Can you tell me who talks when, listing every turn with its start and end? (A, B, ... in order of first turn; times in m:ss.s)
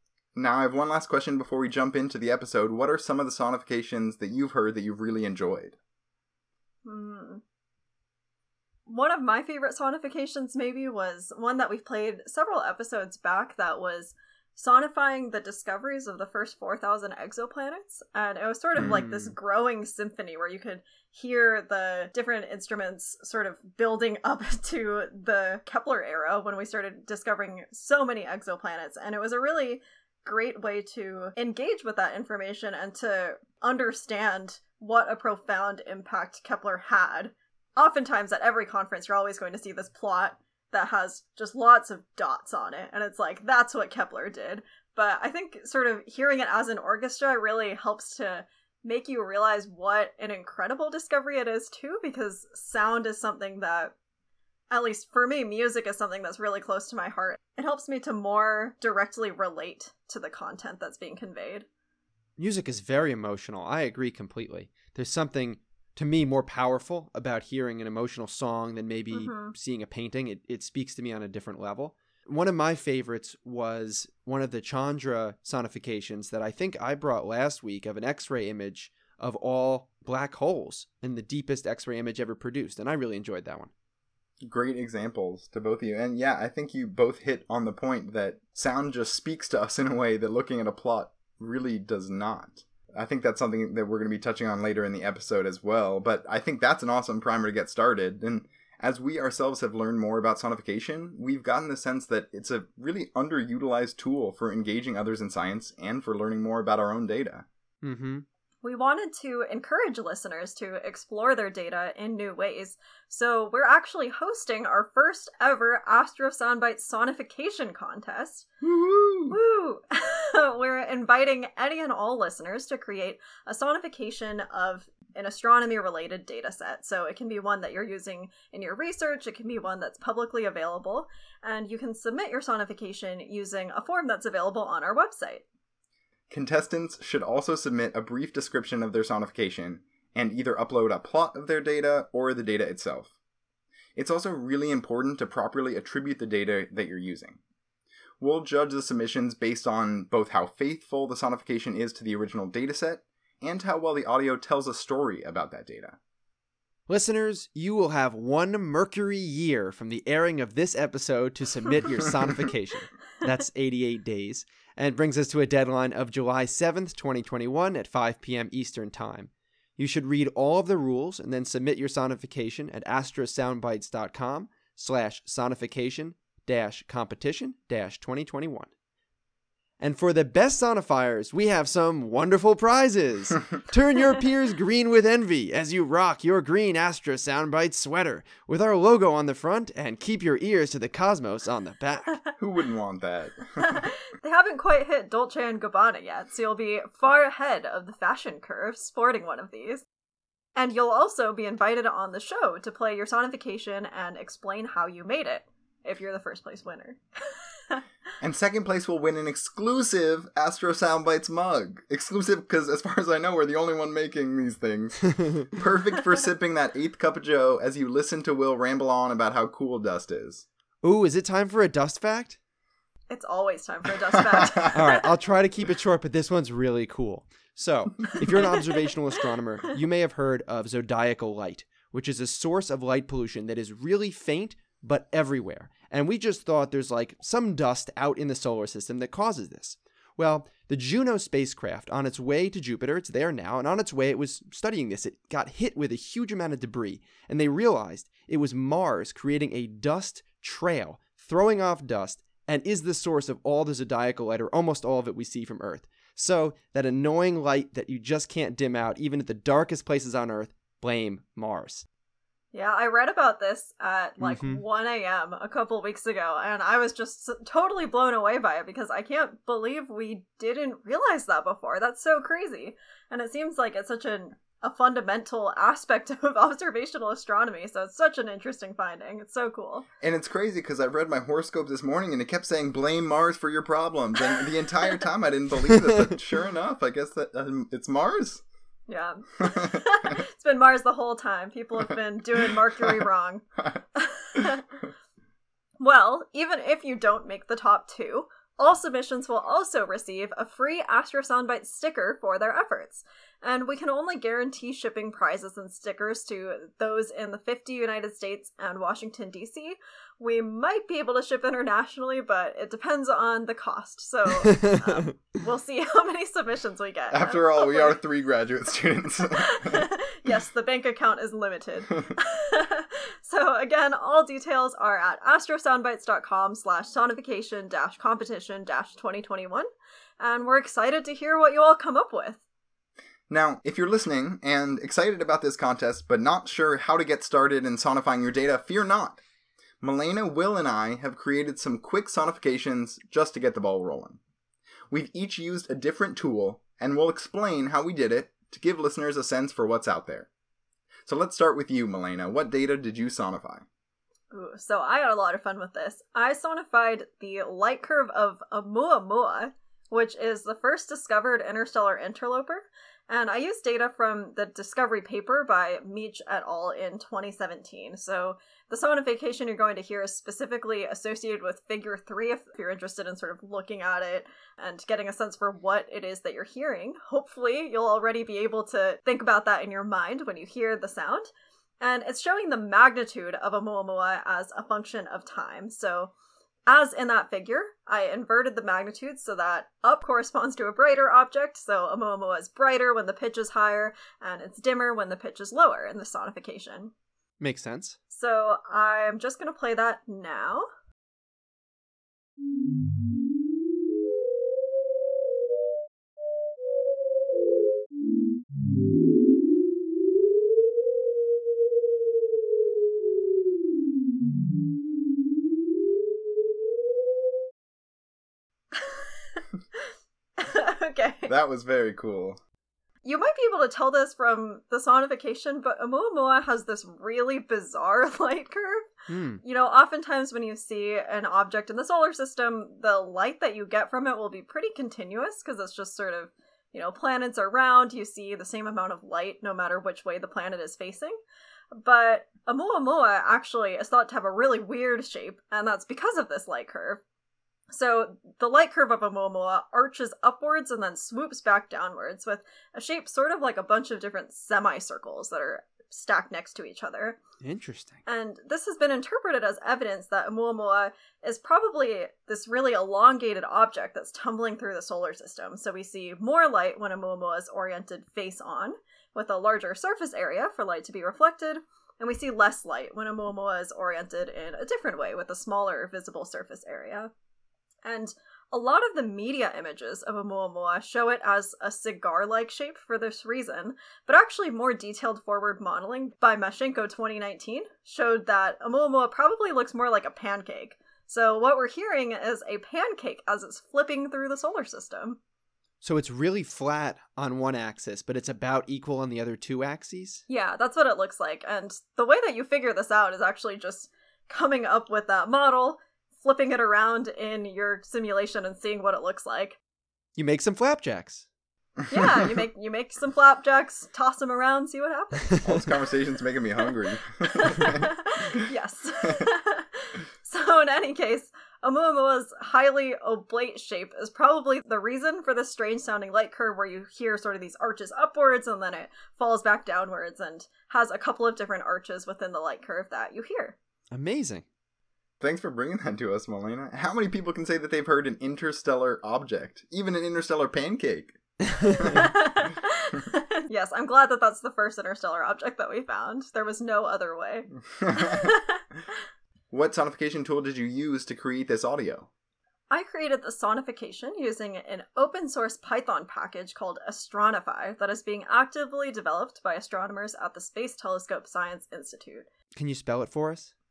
0:00.4-0:05.8 A
0:06.8-0:07.4 B
0:08.9-0:53.9 B
0:18.8-0:19.0 A
0:18.8-0:19.3 C
0:54.7-1:01.7 B
1:02.4-1:23.7 C
1:09.1-1:09.5 B
1:24.4-1:47.5 A
1:47.8-1:48.2 C
1:48.6-1:58.5 B
1:58.6-1:59.4 A
1:59.3-2:15.4 B
2:16.3-2:23.1 A
2:24.0-2:27.4 A
2:28.2-2:36.0 A
2:36.9-2:58.7 C
2:59.8-3:12.2 C
3:12.4-3:13.8 A
3:13.6-3:19.8 B
3:20.6-3:27.8 B
3:28.2-3:40.5 A
3:40.8-3:42.4 C
3:43.1-3:45.1 B
3:44.1-3:44.4 A
3:44.7-4:21.8 C
4:22.5-4:39.9 B
4:24.2-4:24.6 C
4:40.0-4:48.4 A
4:48.9-4:53.4 B
4:49.4-4:50.1 A
4:54.0-4:54.6 B
4:55.8-5:18.0 B
5:17.1-5:19.9 A
5:19.4-5:29.7 B
5:30.2-5:32.4 B
5:33.3-5:39.2 A
5:39.8-5:44.2 A
5:44.9-5:50.3 A
5:51.1-5:53.6 A
5:54.3-6:21.3 B
6:21.8-6:26.1 B
6:26.7-6:36.9 B
6:37.4-6:38.0 C
6:38.1-6:40.7 B
6:58.8-6:59.4 B
7:00.4-7:01.3 B
7:01.3-7:02.4 A
7:03.0-7:08.9 B
7:09.1-7:09.4 C
7:09.4-7:21.2 B
7:21.7-7:27.0 B
7:27.7-7:37.2 B
7:37.4-7:38.0 C
7:38.1-7:57.1 B
7:57.8-8:15.2 B
8:15.8-8:20.2 C
8:20.3-8:29.6 B
8:30.2-8:31.3 C
8:31.9-8:35.4 B
8:35.4-8:37.8 A
8:37.2-8:53.6 B
8:53.9-8:54.4 C
8:55.2-9:01.2 A
9:01.7-9:02.1 A
9:01.8-9:08.6 B
9:07.8-9:08.3 A
9:09.5-9:12.1 A
9:12.7-9:22.3 B
9:22.6-9:23.5 C